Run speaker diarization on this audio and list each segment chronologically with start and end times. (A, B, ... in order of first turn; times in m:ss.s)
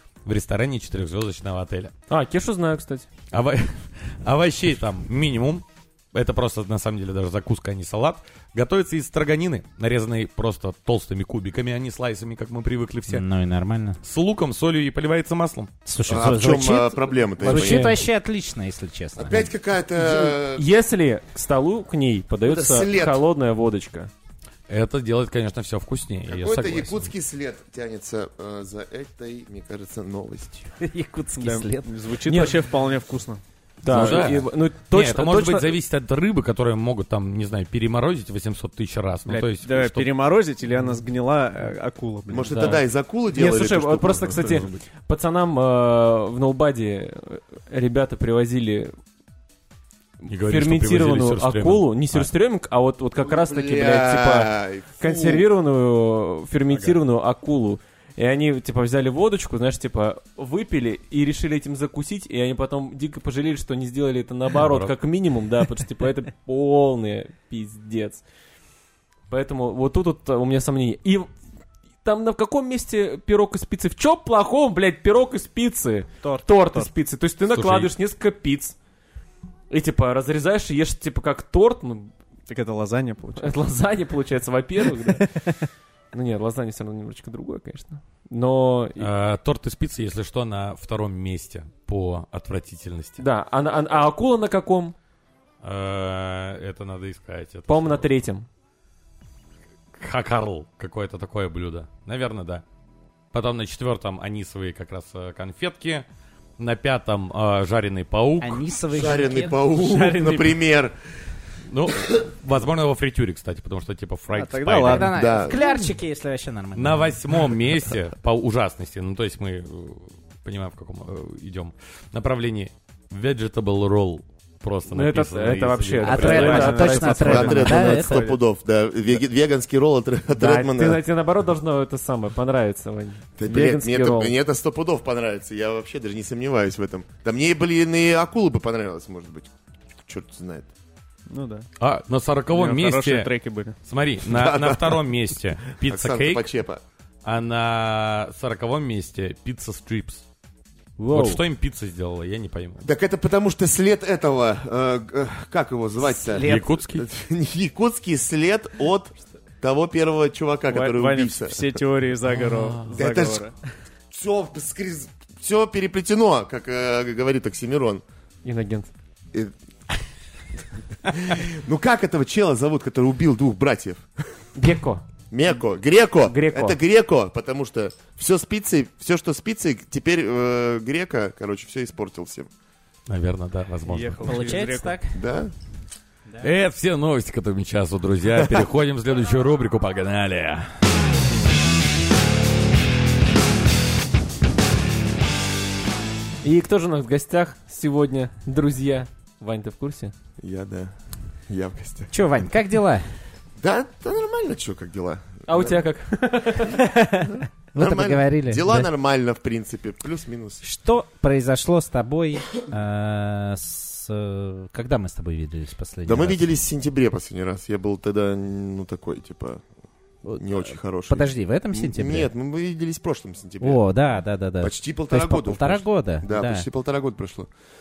0:00.2-0:01.9 A
0:02.1-0:03.1 B
0:03.3-0:13.2 A
0:13.1-0:14.0 C
0:14.0-0:15.7 A
0:15.8-0:19.5 C
0:16.1-0:18.0 D
0:17.4-0:17.9 B
0:19.2-0:20.6 D
0:19.9-0:24.1 B
0:22.4-0:23.2 D
0:24.7-0:27.1 A
0:26.3-0:30.7 D
0:30.8-0:31.9 C
0:31.4-0:33.4 E
0:32.3-0:32.6 B
0:33.8-0:35.7 B
0:33.8-0:40.1 A
0:33.9-0:34.2 D
0:39.3-0:42.8 E
0:42.3-0:44.6 D
0:42.5-0:48.9 B
0:44.5-0:44.8 A
0:50.3-0:52.3 A
0:50.3-1:08.2 B
0:53.2-0:55.4 D
1:04.6-1:04.9 A
1:09.3-1:11.3 B
1:12.0-1:18.8 B
1:16.2-1:16.9 E
1:17.5-1:17.9 A
1:19.7-1:22.1 B
1:22.5-1:23.6 E
1:23.4-1:25.4 B
1:26.1-1:29.1 B
1:29.0-1:33.2 A
1:33.2-1:34.9 B
1:35.6-1:38.0 A
1:37.7-1:38.5 B
1:39.9-1:42.6 A
1:43.3-1:46.0 A
1:46.6-1:48.7 A
1:48.4-1:49.6 C
1:48.9-1:51.0 D
1:49.7-1:50.6 E
1:51.7-1:55.1 A
1:51.9-1:52.2 D
1:54.3-1:55.1 E
1:54.8-1:57.2 C
1:55.1-1:55.6 D
1:56.7-2:06.8 A
2:04.9-2:07.7 B
2:06.0-2:08.2 C
2:06.2-2:08.4 E
2:07.2-2:11.0 D
2:10.3-2:14.3 B
2:13.4-2:20.7 D
2:21.3-2:21.7 E
2:21.8-2:23.3 A
2:22.5-2:23.8 E
2:23.8-2:26.4 A
2:24.2-2:25.0 D
2:25.8-2:26.8 D
2:27.2-2:30.2 A
2:31.0-2:31.4 C
2:31.1-2:32.8 A
2:32.8-2:41.8 D
2:36.1-2:36.7 C
2:36.3-2:37.1 A
2:40.7-2:43.6 E
2:42.9-2:43.4 D
2:44.1-2:48.0 D
2:48.4-2:48.9 B
2:51.0-2:54.1 D
2:54.6-2:55.0 B
2:55.3-3:02.5 D
2:56.2-2:56.8 B
3:03.1-3:04.6 A
3:03.8-3:05.0 E
3:04.2-3:05.2 C
3:05.1-3:05.5 D
3:06.4-3:10.7 A
3:16.4-3:20.1 B
3:20.4-3:21.0 D
3:21.5-3:22.1 D
3:22.1-3:23.1 C
3:23.6-3:25.7 D
3:25.5-3:26.8 B
3:26.7-3:28.9 C
3:27.3-3:30.6 D
3:30.6-3:36.4 C
3:36.0-3:39.6 D
3:40.2-3:42.3 C
3:40.4-3:43.8 D
3:43.6-3:46.7 C
3:44.6-3:47.5 D